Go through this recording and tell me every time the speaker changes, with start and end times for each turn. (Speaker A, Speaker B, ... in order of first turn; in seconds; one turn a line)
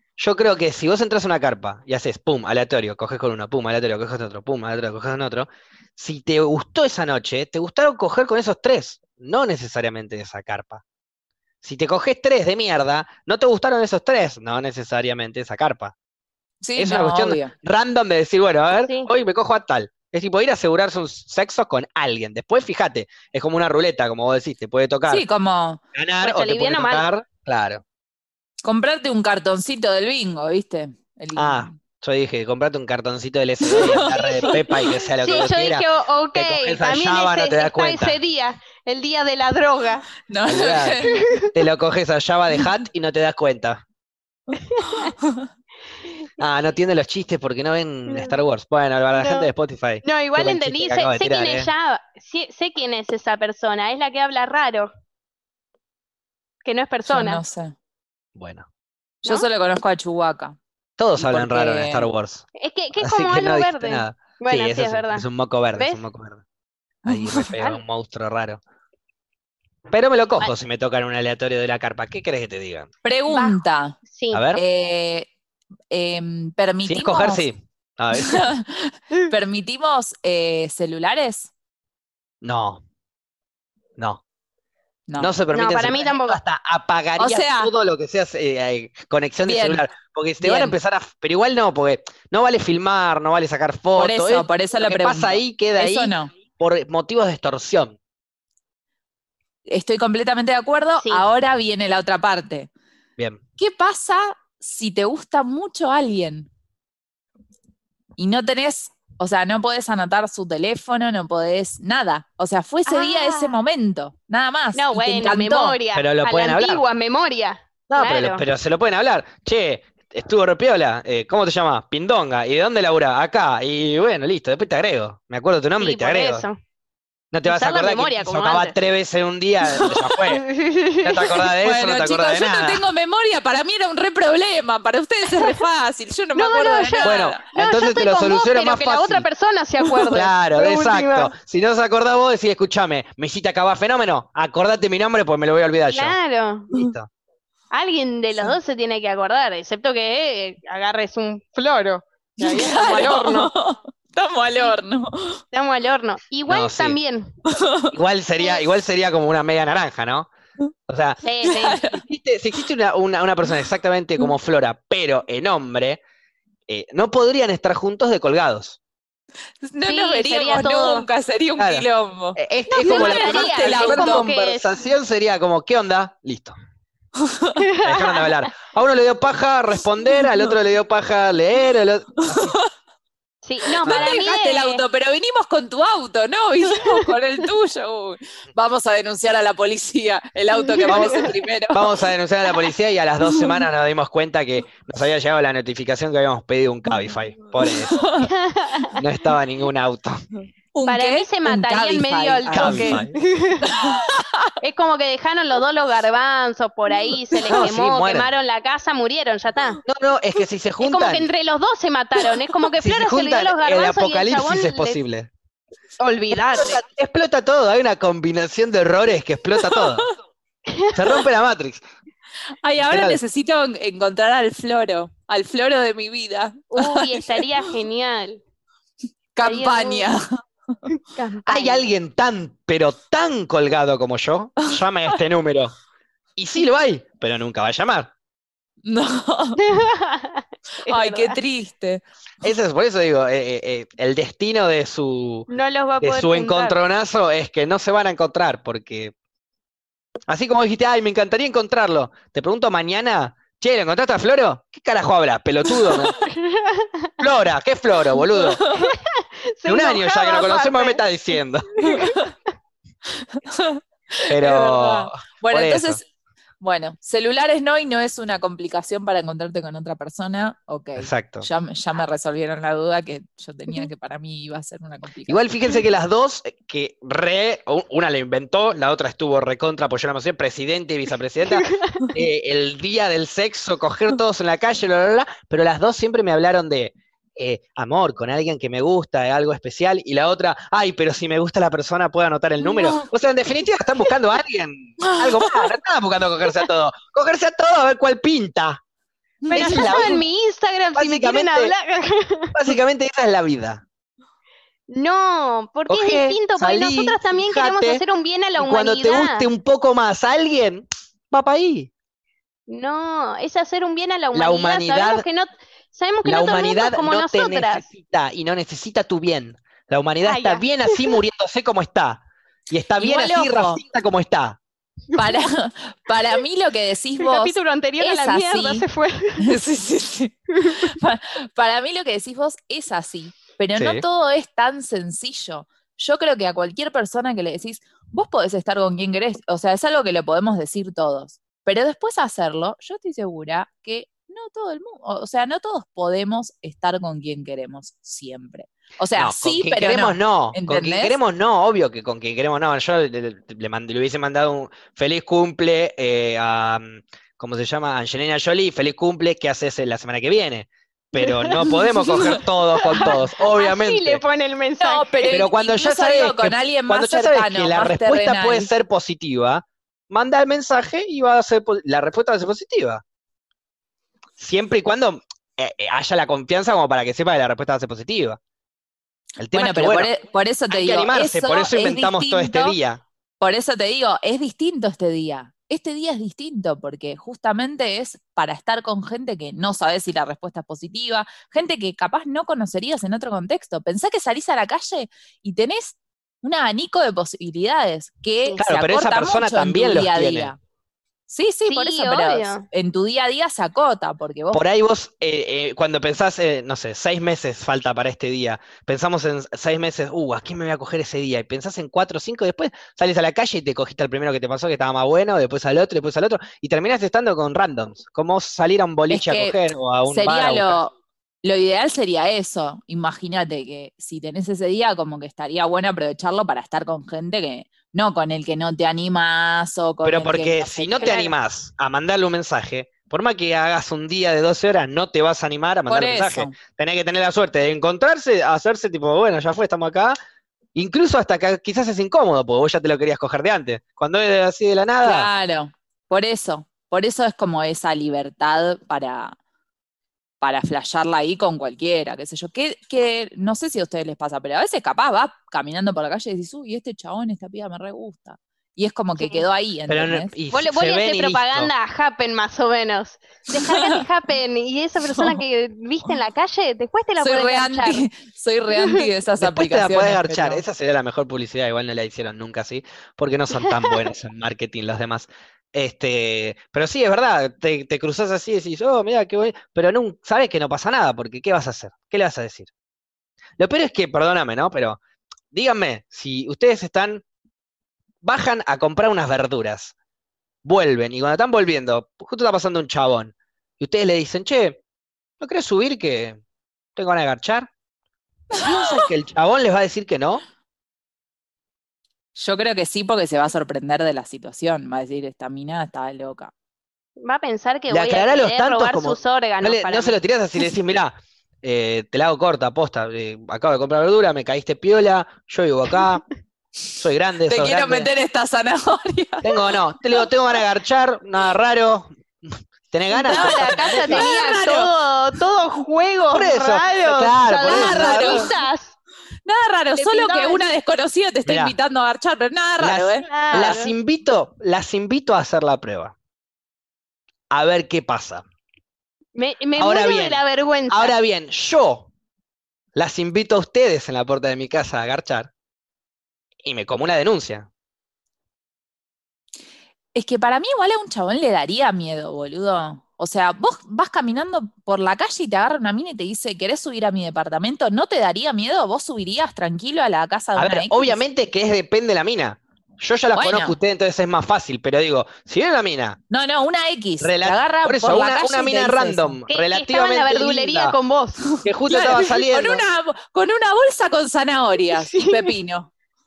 Speaker A: 0.2-10.8
Speaker A: 11.6-15.9
Speaker B: 16.6-17.5
Speaker A: 16.8-25.2
Speaker C: 18.7-19.1
Speaker B: 25.1-25.8
Speaker A: 25.9-27.8
Speaker C: 26.2-27.0
Speaker B: 28.6-31.8
Speaker A: 31.4-38.2
Speaker B: 33.7-34.9
Speaker C: 33.8-40.1
Speaker B: 40.3-41.2
Speaker A: 40.5-43.8
Speaker C: 41.0-41.5
Speaker C: 44.6-45.1
Speaker A: 46.4-51.7
Speaker C: 48.1-48.4
Speaker C: 49.2-49.5
Speaker C: 50.0-54.9
Speaker C: 56.6-57.4
Speaker B: 57.1-57.8
Speaker A: 58.4-58.7
Speaker B: 59.2-60.6
Speaker A: 61.0-62.5
Speaker B: 61.2-62.1
Speaker C: 62.5-65.2
Speaker A: 63.0-66.4
Speaker C: 65.8-66.0
Speaker A: 67.0-68.6
Speaker B: 67.1-67.5
Speaker A: 69.9-72.9
Speaker B: 73.0-74.0
Speaker C: 73.3-74.4
Speaker A: 74.3-74.6
Speaker B: 74.5-75.3
Speaker B: 75.9-77.5
Speaker A: 76.8-78.5
Speaker B: 78.1-81.5
Speaker A: 82.4-82.8
Speaker A: 84.0-84.2
Speaker A: 85.2-98.0
Speaker C: 85.5-86.4
Speaker B: 87.2-87.7
Speaker B: 89.5-89.8
Speaker B: 90.4-90.8
Speaker B: 94.0-96.3
Speaker B: 99.7-102.7
Speaker B: 103.6-106.5
Speaker B: 108.2-115.8
Speaker C: 112.9-113.6
Speaker C: 114.8-118.4
Speaker A: 115.9-116.8
Speaker A: 117.9-126.5
Speaker C: 125.8-126.5
Speaker A: 127.3-130.5
Speaker C: 127.5-128.8
Speaker C: 130.3-131.3
Speaker A: 131.0-132.8
Speaker B: 131.5-137.4
Speaker C: 136.3-141.3
Speaker A: 137.0-139.3
Speaker A: 140.1-146.2
Speaker C: 145.9-146.7
Speaker A: 146.7-147.1
Speaker C: 147.7-153.5
Speaker B: 152.4-155.4
Speaker C: 155.5-157.3
Speaker A: 156.5-157.0
Speaker B: 157.5-157.9
Speaker A: 157.9-160.3
Speaker A: 160.9-161.2
Speaker C: 161.2-161.9
Speaker B: 161.4-162.0
Speaker A: 161.9-166.0
Speaker A: 166.7-168.8
Speaker B: 169.6-174.3
Speaker C: 169.9-171.1
Speaker A: 171.6-176.6
Speaker C: 172.7-174.7
Speaker B: 177.2-177.6
Speaker C: 177.6-178.3
Speaker A: 177.8-182.6
Speaker B: 182.3-182.7
Speaker C: 183.4-184.8
Speaker B: 183.7-192.1
Speaker A: 183.8-184.2
Speaker C: 190.5-191.3
Speaker A: 190.8-198.2
Speaker B: 193.2-193.7
Speaker B: 197.1-198.3
Speaker C: 198.2-199.0
Speaker A: 199.0-200.2
Speaker B: 200.7-203.1
Speaker C: 200.9-203.8
Speaker A: 202.5-203.2
Speaker B: 203.6-204.5
Speaker C: 204.6-209.8
Speaker B: 207.4-207.7
Speaker A: 207.5-208.3
Speaker A: 209.8-211.3
Speaker C: 210.8-215.0
Speaker A: 212.8-215.3
Speaker C: 216.0-216.8
Speaker A: 216.5-220.1
Speaker B: 219.6-220.0
Speaker C: 220.7-220.9
Speaker A: 220.9-221.8
Speaker B: 222.6-227.7
Speaker A: 222.8-223.2
Speaker C: 226.7-228.4
Speaker B: 229.4-230.8
Speaker C: 229.4-230.1
Speaker C: 230.9-231.9
Speaker A: 231.5-235.8
Speaker A: 236.4-238.1
Speaker B: 238.8-239.6
Speaker C: 239.6-241.4
Speaker B: 240.8-242.0
Speaker A: 242.4-245.5
Speaker C: 245.5-246.8
Speaker A: 246.0-249.1
Speaker A: 250.3-256.2
Speaker B: 255.8-256.1
Speaker C: 256.2-257.1
Speaker A: 257.2-258.6
Speaker C: 258.6-261.0
Speaker A: 259.7-261.7
Speaker C: 261.8-262.3
Speaker B: 261.9-262.3
Speaker B: 263.2-266.0
Speaker A: 264.3-266.0
Speaker B: 266.6-275.4
Speaker A: 271.0-271.5
Speaker A: 275.3-298.8
Speaker C: 281.6-282.1
Speaker B: 292.7-293.0
Speaker B: 295.0-295.6
Speaker B: 299.4-300.2
Speaker A: 299.5-300.2
Speaker C: 299.5-302.5
Speaker A: 301.0-301.7
Speaker A: 302.5-303.8
Speaker C: 304.9-309.5
Speaker A: 305.9-308.0
Speaker A: 308.6-311.9
Speaker C: 312.7-317.9
Speaker A: 314.3-315.2
Speaker A: 316.2-324.6
Speaker C: 320.2-321.2
Speaker B: 323.0-323.8
Speaker B: 325.1-328.9
Speaker C: 327.2-329.6
Speaker B: 329.4-351.2
Speaker C: 330.5-330.8
Speaker A: 333.8-334.0
Speaker A: 349.2-364.2
Speaker C: 361.2-365.5
Speaker B: 364.8-368.7
Speaker A: 365.3-373.0
Speaker A: 374.4-378.4
Speaker A: 379.4-380.1
Speaker B: 379.5-382.8
Speaker A: 380.7-383.0
Speaker B: 383.4-400.6
Speaker A: 398.6-400.5
Speaker B: 401.3-404.6
Speaker C: 401.7-402.7
Speaker A: 404.5-420.8
Speaker B: 419.1-419.6
Speaker B: 420.1-431.3
Speaker A: 430.0-440.2
Speaker B: 435.9-436.6
Speaker A: 440.8-445.3
Speaker B: 445.0-449.4
Speaker B: 450.4-460.3
Speaker C: 459.2-459.4
Speaker A: 459.9-461.7
Speaker C: 460.5-468.1
Speaker B: 463.5-464.0
Speaker B: 465.1-465.4
Speaker B: 467.2-470.6
Speaker C: 468.8-469.0
Speaker A: 469.4-482.7
Speaker A: 483.6-485.0
Speaker A: 485.5-487.2
Speaker A: 488.2-489.9
Speaker A: 490.6-494.8
Speaker A: 495.4-496.4
Speaker A: 497.0-497.7
Speaker B: 498.5-499.0
Speaker A: 498.5-500.4
Speaker B: 502.4-506.5
Speaker C: 507.2-510.2
Speaker A: 507.9-516.2
Speaker A: 516.9-518.1
Speaker B: 517.5-519.6
Speaker A: 519.4-524.3
Speaker B: 523.2-524.9
Speaker C: 523.2-529.0
Speaker A: 526.3-528.5
Speaker B: 527.7-528.5
Speaker B: 529.5-533.8
Speaker C: 530.0-530.7
Speaker A: 531.5-531.8
Speaker A: 532.8-536.1
Speaker C: 533.3-533.9
Speaker A: 537.5-538.4
Speaker C: 539.4-541.1
Speaker A: 539.8-542.1
Speaker A: 543.0-545.5
Speaker A: 546.6-547.7
Speaker B: 550.1-561.2
Speaker A: 560.6-566.2
Speaker B: 563.4-563.8
Speaker B: 566.3-569.4
Speaker A: 567.2-571.0
Speaker C: 569.5-571.6
Speaker B: 571.5-575.9
Speaker A: 571.6-572.8
Speaker C: 574.9-575.5